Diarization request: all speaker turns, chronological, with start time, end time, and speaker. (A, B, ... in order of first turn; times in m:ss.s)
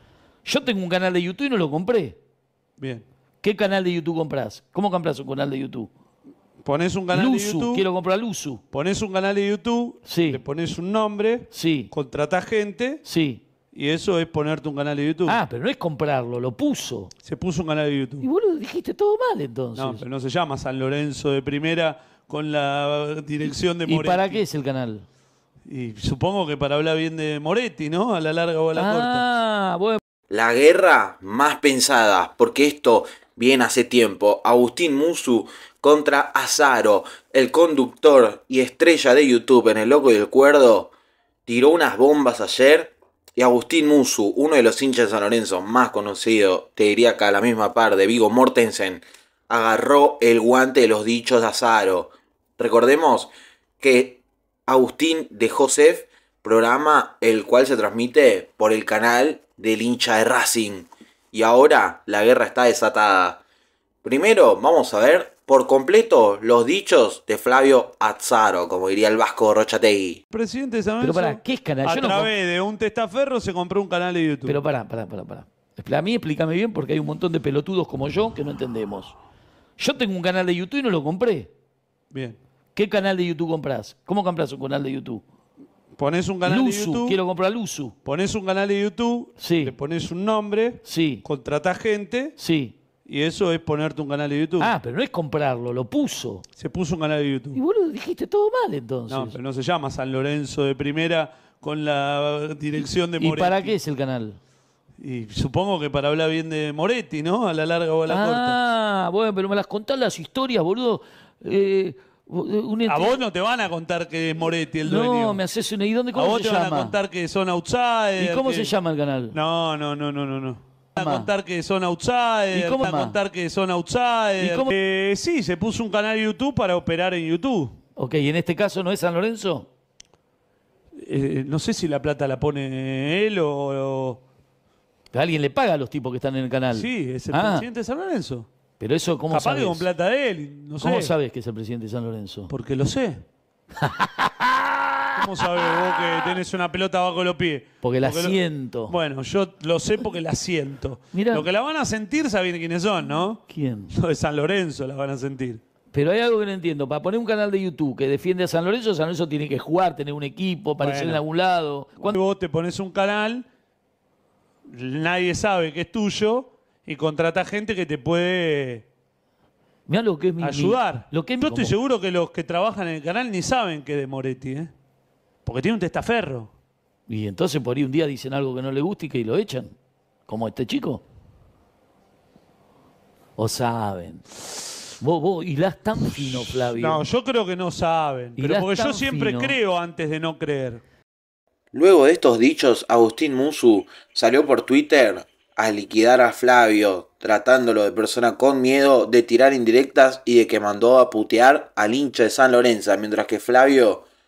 0:00.4-0:02.2 A
0:02.8-0:03.0 B
0:03.4-0:05.9 A
0:06.6-0:07.9 B
0:07.1-0:08.6 A
0:08.7-0:13.0 B
0:10.0-0:10.4 A
0:11.5-0:11.9 A
0:13.0-0:13.4 A
0:13.7-0:15.4 B
0:15.3-0:17.1 A
0:17.2-0:18.3 B
0:18.2-0:20.1 A
0:19.8-0:24.4 B
0:23.8-0:25.1 A
0:25.7-0:29.2 B
0:28.8-0:30.0 A
0:30.3-0:40.9 C
0:41.5-1:03.4 C
1:04.0-1:10.2 C
1:10.3-1:14.6 B
1:11.0-1:12.3 A
1:14.5-1:19.2 A
1:19.8-1:21.5 A
1:22.1-1:22.4 B
1:22.8-1:25.2 A
1:26.0-1:27.2 B
1:26.5-1:28.0 A
1:28.0-1:32.4 B
1:29.4-1:29.7 A
1:30.8-1:31.2 A
1:32.4-1:32.8 A
1:33.0-1:34.7 B
1:34.6-1:36.4 A
1:36.6-1:37.6 B
1:37.5-1:39.4 A
1:39.1-1:43.8 B
1:43.2-1:44.4 A
1:45.0-1:48.6 B
1:48.1-1:53.2 A
1:52.9-1:55.4 B
1:54.8-1:56.9 A
1:56.1-1:58.8 B
1:58.2-1:59.4 A
1:59.3-2:07.8 B
2:01.0-2:01.3 A
2:02.5-2:03.2 A
2:04.4-2:04.7 A
2:08.0-2:09.7 A
2:11.0-2:14.2 B
2:15.1-2:17.7 A
2:16.7-2:18.5 B
2:18.8-2:19.9 A
2:19.3-2:21.2 B
2:20.8-2:22.5 A
2:22.5-2:23.2 B
2:23.8-2:25.0 A
2:25.2-2:35.6 B
2:27.8-2:29.0 A
2:31.1-2:31.5 A
2:33.4-2:33.9 A
2:35.9-2:42.1 A
2:40.8-2:41.2 B
2:42.0-2:43.4 B
2:44.7-2:48.8 B
2:49.9-2:51.7 A
2:50.4-2:54.7 B
2:55.4-2:56.5 B
2:57.1-2:59.7 A
3:00.3-3:01.0 A
3:03.4-3:04.4 A
3:05.0-3:07.0 A
3:06.2-3:10.8 B
3:08.4-3:09.6 A
3:11.7-3:24.0 C